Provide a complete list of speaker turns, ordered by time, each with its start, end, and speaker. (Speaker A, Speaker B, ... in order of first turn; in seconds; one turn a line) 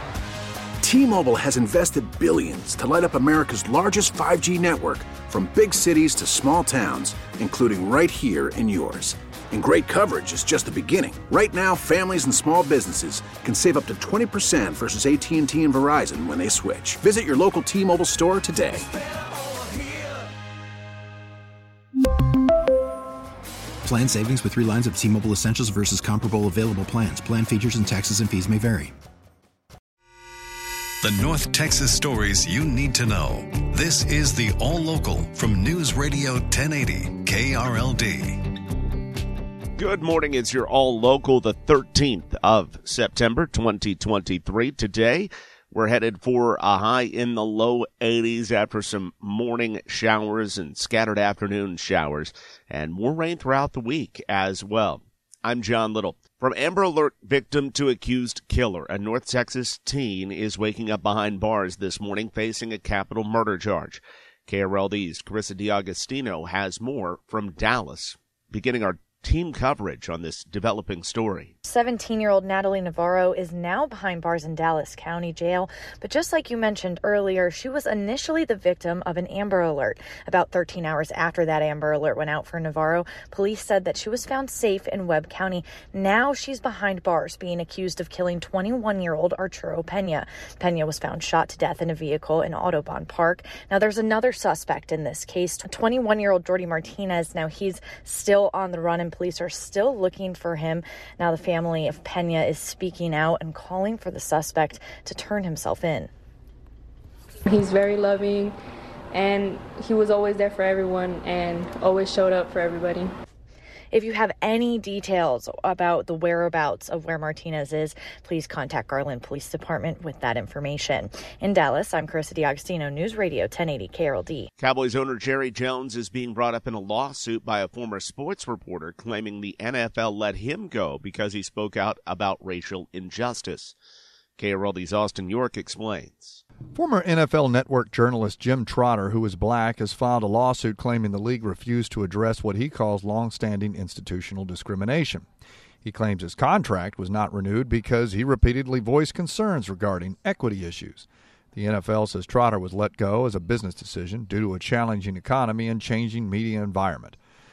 Speaker A: 0.8-18.8
Speaker B: 23.8-28.9
Speaker C: 31.0-38.4
Speaker D: 39.8-71.5
Speaker E: 71.6-106.1
Speaker F: 107.5-108.5
Speaker F: 109.1-113.1
Speaker E: 113.9-124.5
Speaker D: 124.6-133.7
Speaker D: 134.4-136.4
Speaker G: 136.7-145.2
Speaker G: 145.8-157.2